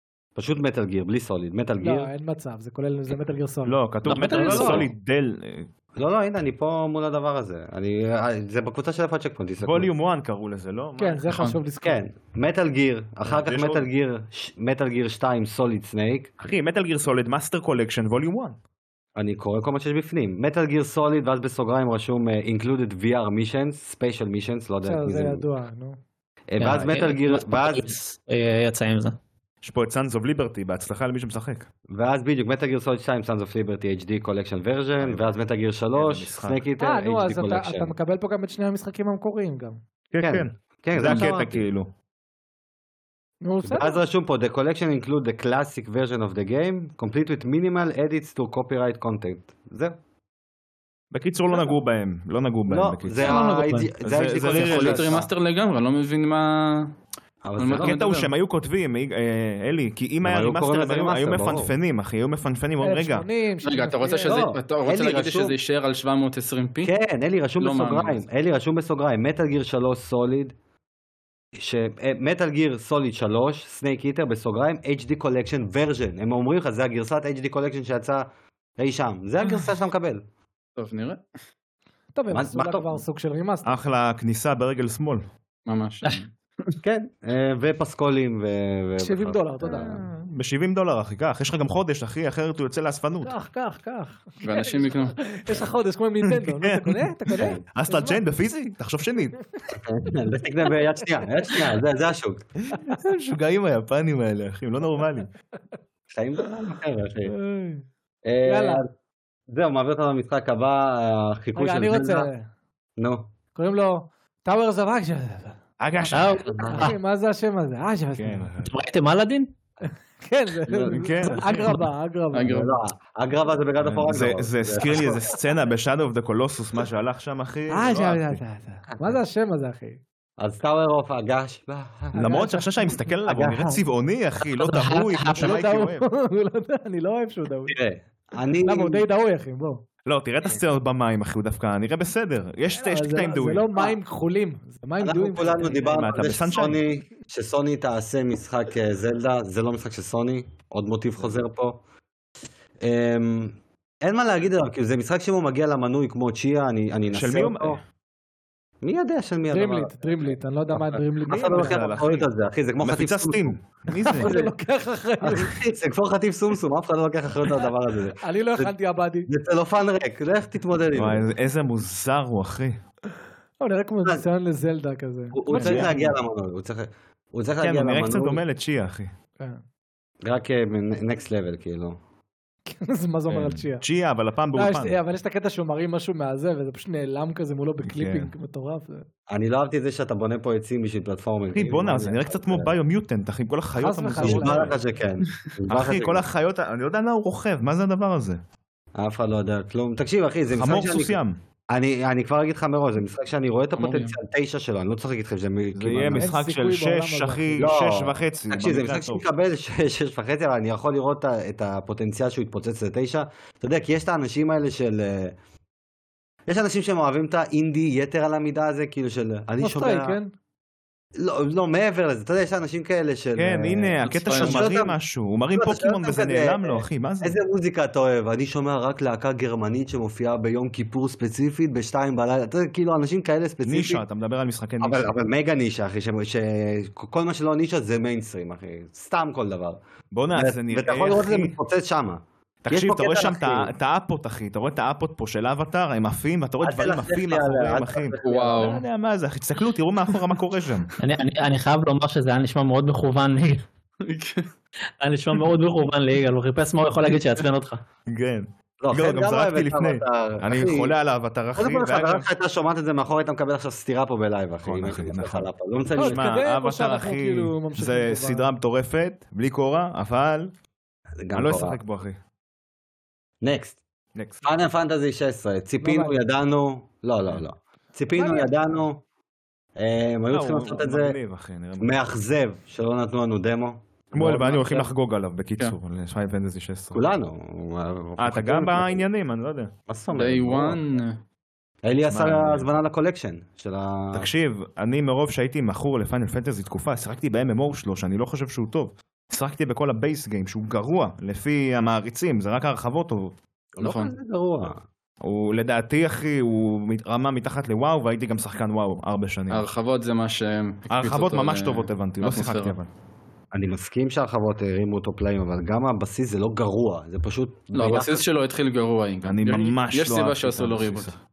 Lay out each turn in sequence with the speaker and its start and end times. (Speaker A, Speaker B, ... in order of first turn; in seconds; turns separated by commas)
Speaker A: 0.3-2.1, Speaker B: 1.8-4.8, Speaker C: 3.6-5.7, Speaker D: 4.0-4.8, Speaker A: 6.0-9.9, Speaker C: 9.6-11.6, Speaker B: 11.0-12.0, Speaker A: 11.8-16.3, Speaker C: 13.2-13.8, Speaker C: 16.4-18.6, Speaker A: 19.1-25.4, Speaker B: 24.8-26.0, Speaker A: 26.5-27.9, Speaker D: 26.6-29.2, Speaker C: 29.6-31.7, Speaker A: 31.9-37.9, Speaker C: 35.0-35.3, Speaker C: 35.9-36.6, Speaker B: 36.8-39.8, Speaker C: 40.1-41.9, Speaker A: 40.2-41.6, Speaker B: 43.4-44.0, Speaker A: 43.6-50.0, Speaker C: 51.1-53.4, Speaker A: 52.7-55.3, Speaker D: 53.2-53.9, Speaker C: 54.0-55.2, Speaker E: 54.5-56.9, Speaker A: 57.4-58.3, Speaker E: 57.6-58.0, Speaker C: 57.7-63.2, Speaker A: 60.2-61.7, Speaker B: 62.8-64.4, Speaker E: 63.6-66.9, Speaker A: 64.2-65.5, Speaker A: 66.8-70.5, Speaker E: 67.6-68.2, Speaker A: 71.5-78.3, Speaker A: 78.8-80.2, Speaker E: 80.8-81.2, Speaker B: 82.1-83.8, Speaker A: 82.3-83.0, Speaker C: 83.6-85.2, Speaker E: 85.7-86.3, Speaker D: 86.0-86.7, Speaker A: 86.8-90.0, Speaker B: 89.0-90.2, Speaker C: 90.2-93.3, Speaker B: 93.2-98.2, Speaker E: 94.4-95.2, Speaker C: 96.2-99.3, Speaker A: 97.4-97.6, Speaker A: 99.7-102.4, Speaker B: 101.2-101.7, Speaker C: 102.6-105.3, Speaker A: 106.1-107.3, Speaker B: 107.3-107.8, Speaker A: 108.2-108.9, Speaker B: 108.5-108.8, Speaker A: 109.5-112.3, Speaker B: 111.5-112.5, Speaker A: 113.0-113.3, Speaker B: 113.5-115.6, Speaker C: 115.8-116.9, Speaker D: 116.1-116.9, Speaker B: 116.7-118.5, Speaker C: 118.1-118.7, Speaker D: 118.6-119.5, Speaker B: 120.2-122.6, Speaker A: 120.7-121.7, Speaker C: 120.8-121.8, Speaker E: 122.3-122.7, Speaker A: 122.5-125.3, Speaker C: 123.8-128.4, Speaker B: 127.7-130.0, Speaker A: 130.4-132.3, Speaker C: 132.1-136.0, Speaker B: 132.2-133.8, Speaker A: 133.3-133.7, Speaker D: 134.5-135.6, Speaker B: 135.4-137.8, Speaker A: 137.7-139.1, Speaker B: 138.6-139.8, Speaker C: 140.1-143.7, Speaker B: 142.7-146.0, Speaker A: 145.0-151.8, Speaker C: 145.9-146.8, Speaker A: 152.8-157.8, Speaker C: 157.1-157.8, Speaker A: 158.8-163.5, Speaker B: 159.5-162.0, Speaker C: 161.3-162.3, Speaker C: 162.8-164.4, Speaker B: 164.0-165.6, Speaker A: 164.1-164.5, Speaker A: 165.2-168.7, Speaker B: 168.2-169.3, Speaker A: 169.2-171.3, Speaker C: 170.9-172.8, Speaker B: 173.6-176.1, Speaker A: 175.3-178.4, Speaker C: 175.5-176.0, Speaker C: 177.6-179.1, Speaker A: 180.2-182.0, Speaker B: 182.7-183.8, Speaker C: 183.3-185.0, Speaker B: 184.5-189.0, Speaker C: 187.8-188.3, Speaker A: 189.3-192.7, Speaker C: 191.5-194.8, Speaker B: 193.8-194.7, Speaker A: 194.2-196.2, Speaker C: 195.7-198.4, Speaker A: 198.9-201.2, Speaker C: 200.5-201.4, Speaker A: 201.7-206.3, Speaker E: 203.8-204.1, Speaker C: 205.7-209.2, Speaker B: 206.2-207.7, Speaker A: 207.6-215.3, Speaker A: 216.5-220.2, Speaker B: 219.6-220.3, Speaker A: 221.2-224.9, Speaker C: 223.4-227.4, Speaker E: 224.0-224.7, Speaker A: 225.5-234.0, Speaker C: 233.6-235.1, Speaker A: 234.8-239.8, Speaker C: 240.1-241.5, Speaker A: 240.3-243.7, Speaker C: 242.6-250.9, Speaker A: 246.6-248.7, Speaker E: 248.2-248.8, Speaker D: 251.0-253.7, Speaker E: 254.0-254.5, Speaker D: 255.0-257.8, Speaker C: 258.1-262.3, Speaker A: 258.8-260.9, Speaker A: 261.6-266.2, Speaker C: 264.6-270.5, Speaker B: 266.0-268.4, Speaker A: 271.2-271.8, Speaker C: 271.3-272.2, Speaker A: 273.4-273.8, Speaker C: 274.1-274.4, Speaker A: 274.4-279.0, Speaker B: 275.8-276.1, Speaker B: 278.1-278.5, Speaker A: 279.8-281.1, Speaker C: 280.3-282.0, Speaker A: 281.8-284.9, Speaker C: 284.1-287.0, Speaker A: 286.9-289.0, Speaker C: 288.2-289.7, Speaker A: 289.9-290.8, Speaker E: 290.1-291.2, Speaker A: 291.8-294.3, Speaker C: 292.1-292.7, Speaker C: 294.1-303.4, Speaker A: 303.8-304.8, Speaker E: 303.8-304.1, Speaker C: 305.2-309.6, Speaker E: 309.5-312.8, Speaker C: 310.9-312.9, Speaker A: 313.5-318.2, Speaker E: 317.7-321.1, Speaker C: 319.2-321.2